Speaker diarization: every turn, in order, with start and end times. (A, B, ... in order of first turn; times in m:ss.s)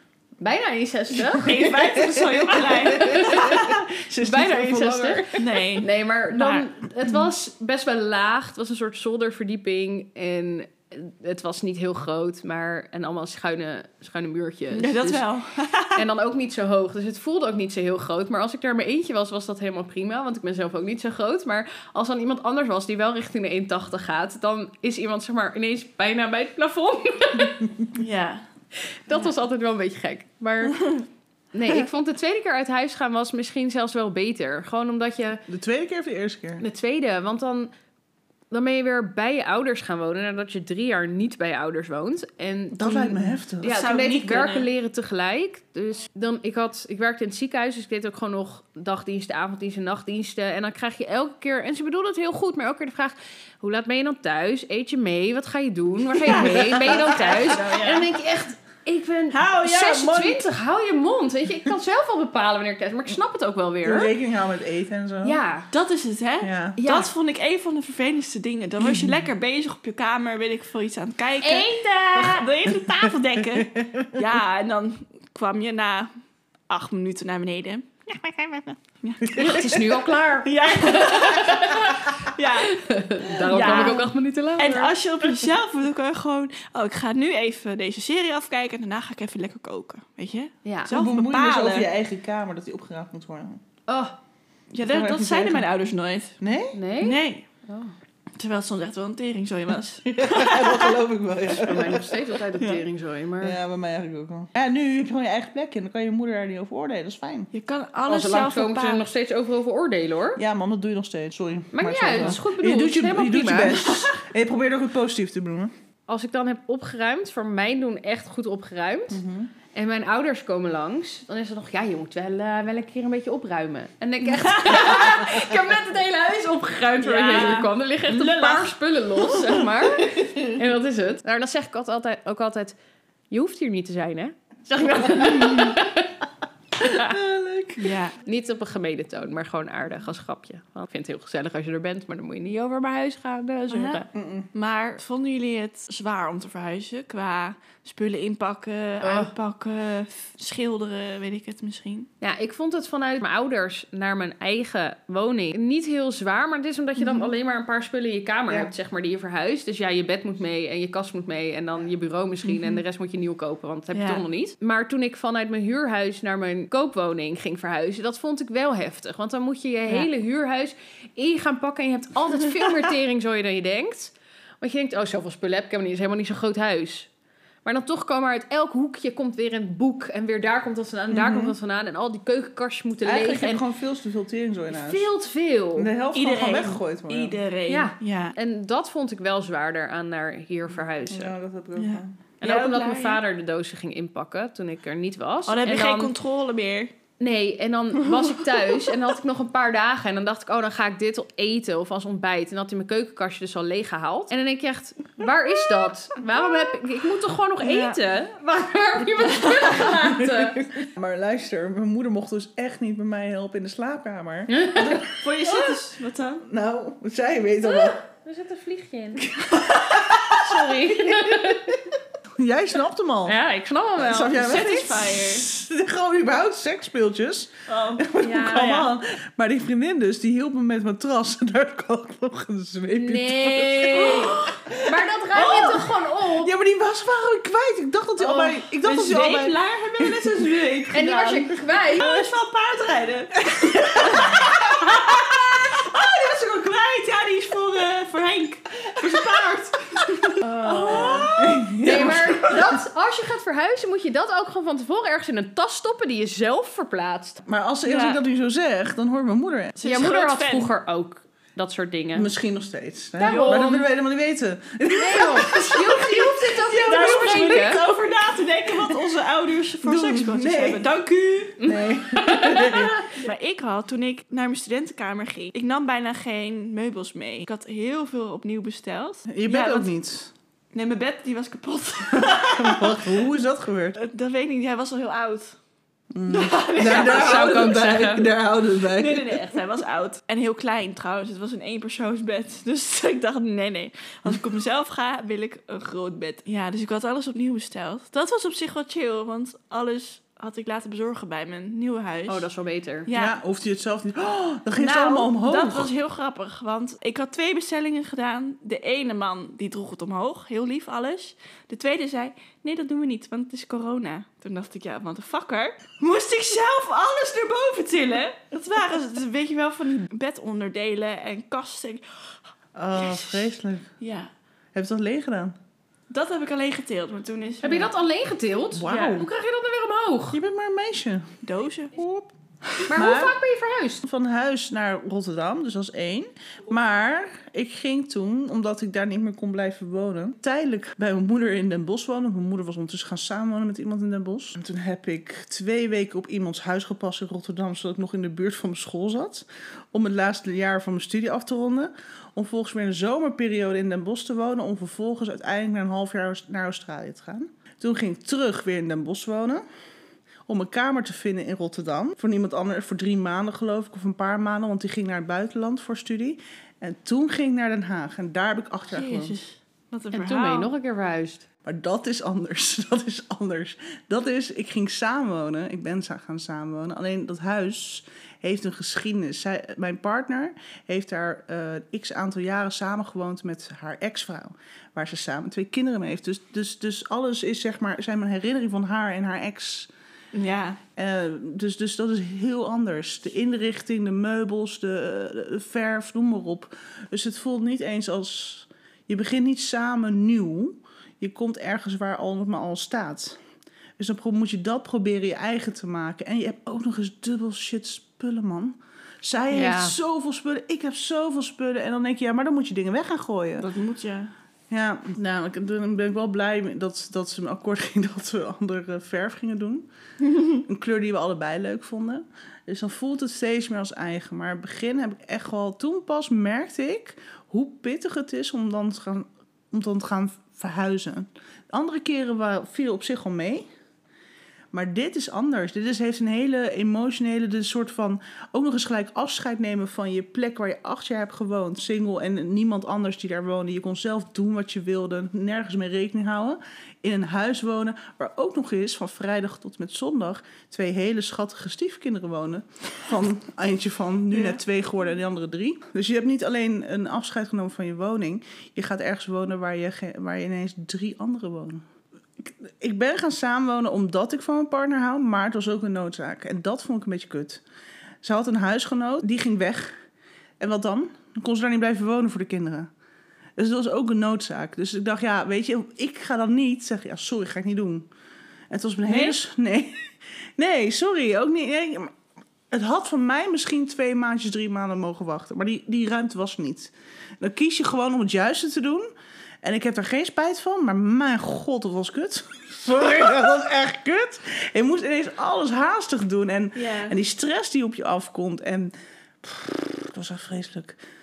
0:00.4-0:01.8 A
0:01.3-0:03.7 B
0:01.4-0:05.3 C
0:02.5-0:15.2 A
0:05.4-0:06.6 B
0:14.7-0:16.0 B
0:15.9-0:27.7 A
0:27.9-0:28.4 B
0:29.0-0:30.9 A
0:31.5-0:35.4 A
0:35.5-0:36.6 C
0:36.6-0:37.7 A
0:38.5-1:04.1 A
0:42.7-0:43.9 C
0:43.6-0:44.7 B
0:56.2-0:58.1 B
0:56.3-0:57.4 C
0:59.3-1:00.4 B
1:03.8-1:05.4 C
1:05.2-1:05.7 A
1:05.7-1:16.1 B
1:06.4-1:06.8 C
1:06.8-1:07.1 A
1:11.4-1:12.5 A
1:12.9-1:14.2 C
1:16.7-1:19.9 B
1:19.2-1:19.8 C
1:19.3-1:24.9 A
1:20.4-1:31.9 B
1:30.6-1:30.9 A
1:30.9-1:33.6 C
1:33.9-1:34.1 A
1:34.7-1:36.4 B
1:34.8-1:35.6 C
1:36.4-1:36.8 C
1:36.7-1:37.9 A
1:37.0-1:37.4 B
1:38.4-1:41.0 B
1:40.0-1:42.2 C
1:41.5-1:43.6 A
1:43.4-1:47.5 C
1:47.5-1:49.0 B
1:48.1-1:50.4 A
1:50.4-1:55.7 C
1:51.7-1:53.8 A
1:53.7-1:54.2 B
1:56.1-1:59.2 A
1:59.1-1:59.5 C
1:59.7-2:12.8 A
2:04.3-2:05.2 B
2:07.0-2:08.7 B
2:13.3-2:16.1 A
2:15.3-2:15.7 B
2:16.8-2:17.1 A
2:16.9-2:17.9 C
2:17.8-2:18.1 B
2:18.2-2:24.1 A
2:24.1-2:24.5 C
2:24.5-2:32.1 B
2:29.0-2:29.3 A
2:32.2-2:57.1 A
2:37.0-2:37.3 B
2:42.5-2:42.8 B
2:43.9-2:44.2 B
2:57.6-3:03.6 A
3:01.1-3:01.5 C
3:03.0-3:05.1 C
3:04.7-3:05.9 A
3:05.8-3:07.4 C
3:06.1-3:08.4 B
3:07.7-3:11.3 A
3:11.1-3:12.1 C
3:11.8-3:13.2 B
3:12.4-3:16.1 A
3:15.5-3:16.9 B
3:17.2-3:30.8 A
3:18.1-3:18.8 B
3:27.6-3:28.0 B
3:30.1-3:34.6 C
3:34.5-3:35.7 A
3:34.8-3:36.4 B
3:36.4-3:38.0 C
3:37.6-3:39.4 A
3:39.2-3:41.6 C
3:40.1-3:41.8 A
3:42.4-3:43.4 C
3:43.2-3:44.4 A
3:44.0-3:55.8 C
3:44.2-3:45.5 B
3:47.7-3:48.1 B
3:48.2-3:48.9 A
3:52.9-3:56.5 A
3:53.9-3:54.6 B
3:55.3-3:55.9 B
3:56.3-4:00.4 C
3:58.2-4:12.3 B
4:00.9-4:02.1 A
4:02.0-4:02.2 C
4:03.4-4:05.7 C
4:09.0-4:09.4 C
4:10.4-4:11.3 A
4:10.6-4:12.8 C
4:11.8-4:17.4 A
4:17.4-4:19.7 C
4:17.8-4:18.2 B
4:19.8-4:20.7 B
4:19.8-4:22.3 A
4:22.2-4:27.8 C
4:23.2-4:23.8 A
4:23.2-4:23.9 B
4:24.9-4:27.8 A
4:26.7-4:31.7 B
4:29.8-4:30.9 C
4:31.6-4:33.2 A
4:31.6-4:33.1 C
4:33.1-4:39.9 B
4:39.3-4:40.3 C
4:40.7-4:43.2 B
4:42.1-4:44.0 C
4:44.0-4:45.6 B
4:46.1-4:49.5 C
4:46.3-4:47.9 B
4:46.8-4:48.3 A
4:48.8-5:02.5 B
5:02.3-5:03.1 A
5:03.1-5:03.4 B
5:03.1-5:05.9 C
5:04.8-5:22.0 B
5:22.7-5:23.9 C
5:22.9-5:24.3 B
5:24.7-5:25.6 C
5:26.1-5:27.9 B
5:27.6-5:30.4 A
5:28.7-5:29.3 C
5:30.3-5:31.4 C
5:31.4-5:31.9 B
5:31.9-5:33.4 C
5:32.9-5:34.0 A
5:34.0-5:59.6 C
6:00.5-6:09.4 C
6:08.9-6:10.7 B
6:10.1-6:11.4 A
6:11.6-6:29.9 C
6:30.3-6:30.8 B
6:31.0-6:43.4 C
6:44.0-6:53.7 C
6:49.5-6:50.0 A
6:53.6-6:54.3 B
6:54.7-6:59.9 C
7:00.3-7:00.6 B
7:00.6-7:13.7 C
7:14.7-7:41.8 C
7:34.3-7:34.6 B
7:42.4-7:47.6 C
7:48.2-7:50.0 C
7:50.6-7:52.9 C
7:53.6-7:58.1 C
7:58.7-8:02.2 C
7:59.1-7:59.4 B
8:02.7-8:09.1 C
8:09.6-8:21.0 C
8:16.8-8:17.2 B